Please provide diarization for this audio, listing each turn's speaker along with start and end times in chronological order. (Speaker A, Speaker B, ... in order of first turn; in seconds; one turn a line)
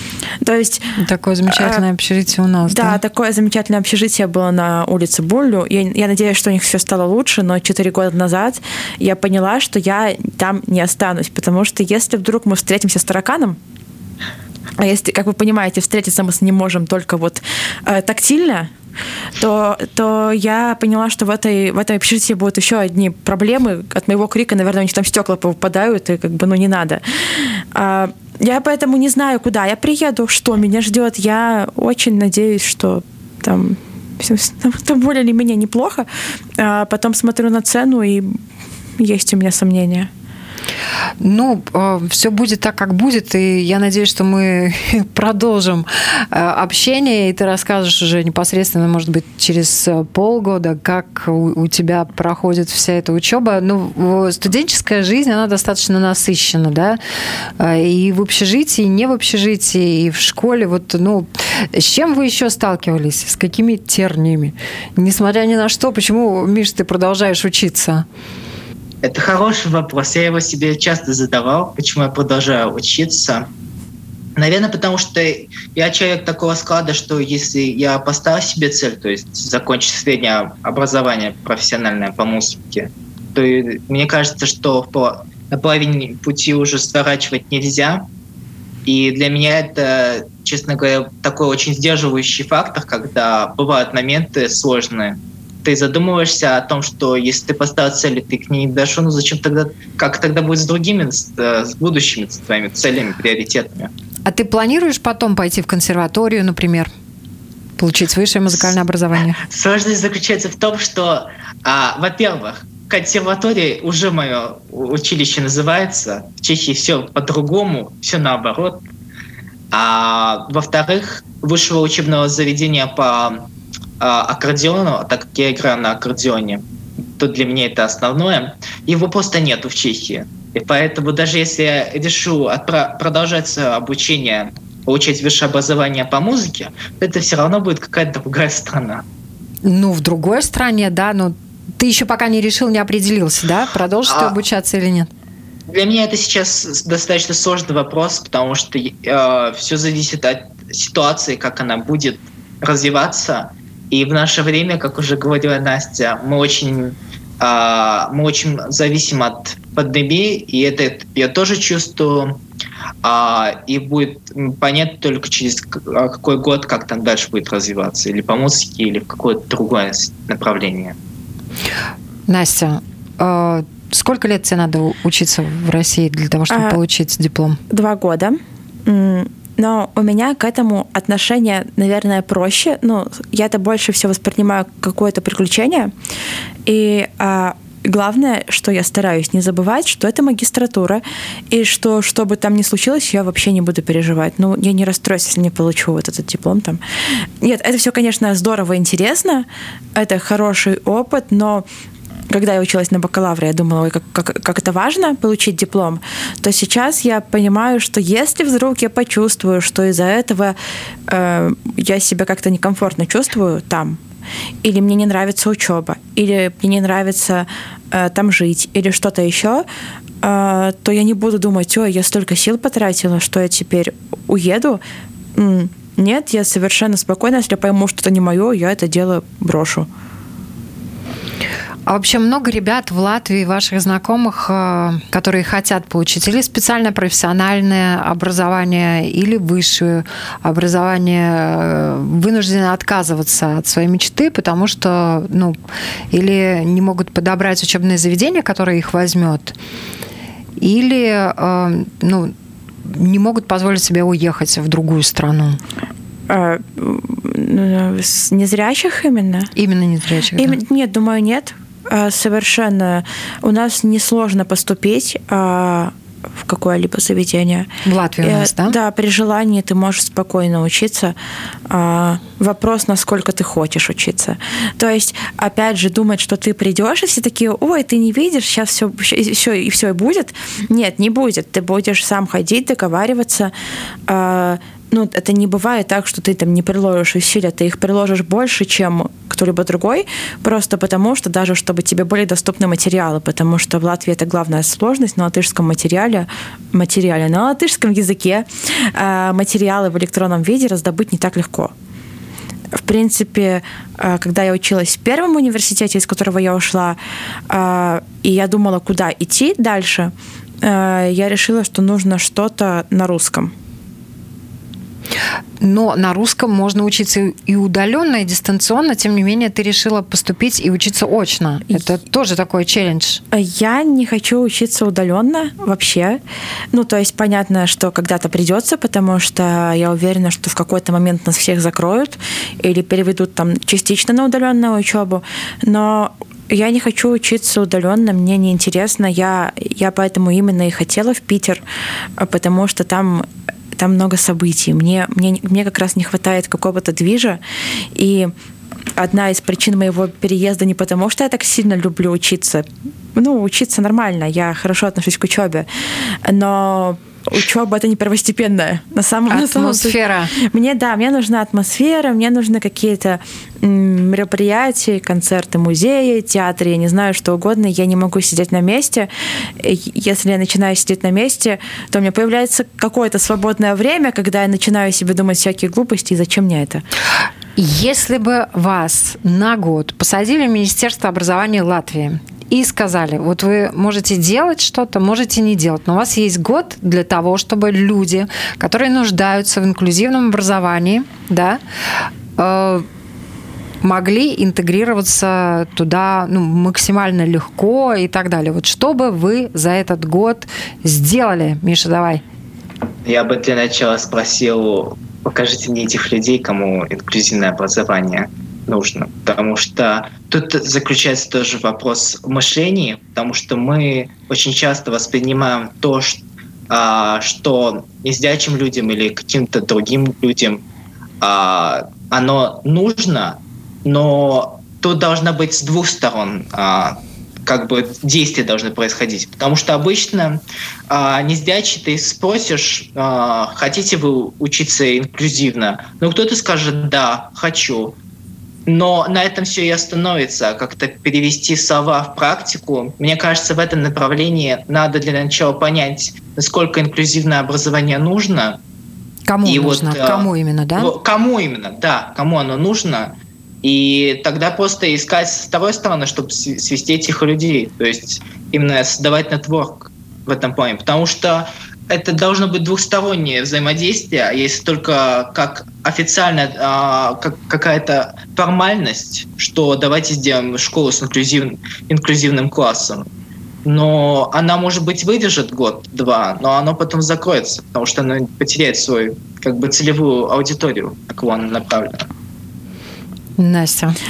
Speaker A: 0.4-0.9
Speaker B: 1.0-3.0
Speaker A: 1.5-1.9
Speaker A: 2.7-13.6
Speaker A: 14.8-18.7
Speaker A: 19.4-38.4
Speaker A: 39.0-40.1
Speaker B: 41.2-57.0
Speaker B: 57.6-68.1
Speaker C: 69.0-73.5
Speaker C: 74.4-88.1
Speaker C: 88.9-103.9
Speaker B: 104.3-106.9
Speaker B: 107.8-109.4
Speaker C: 109.3-118.8
Speaker C: 119.7-123.5
Speaker C: 124.0-126.6
Speaker C: 127.2-139.0
Speaker B: 139.6-145.1
Speaker C: 144.1-144.3
Speaker C: 145.7-162.4
Speaker C: 163.0-170.9
Speaker B: 172.3-177.6
Speaker A: 176.5-176.8
Speaker A: 177.7-185.9
Speaker A: 186.7-196.8
Speaker A: 197.4-201.7
Speaker A: 202.3-210.6
Speaker A: 211.1-214.0
Speaker A: 214.6-219.7
Speaker A: 220.2-224.8
Speaker A: 225.4-229.9
Speaker B: 231.9-245.6
Speaker B: 246.1-249.6
Speaker B: 250.6-252.3
Speaker B: 252.8-255.6
Speaker A: 256.3-259.5
Speaker B: 259.6-260.6
Speaker A: 260.4-267.7
Speaker B: 267.9-268.8
Speaker A: 268.2-271.1
Speaker A: 271.7-283.5
Speaker A: 284.1-301.7
Speaker A: 302.7-307.0
Speaker A: 307.5-313.5
Speaker B: 315.6-323.2
Speaker A: 323.3-326.2
Speaker A: 326.7-341.6
Speaker A: 342.2-347.4
Speaker A: 347.9-348.3
Speaker A: 349.0-376.8
Speaker B: 359.3-360.3
Speaker B: 377.6-391.6
Speaker B: 392.4-392.9
Speaker B: 393.8-402.2
Speaker C: 403.1-420.6
Speaker C: 421.2-438.0
Speaker C: 438.7-448.6
Speaker B: 449.3-450.9
Speaker C: 449.4-473.1
Speaker C: 473.6-482.1
Speaker B: 483.4-484.0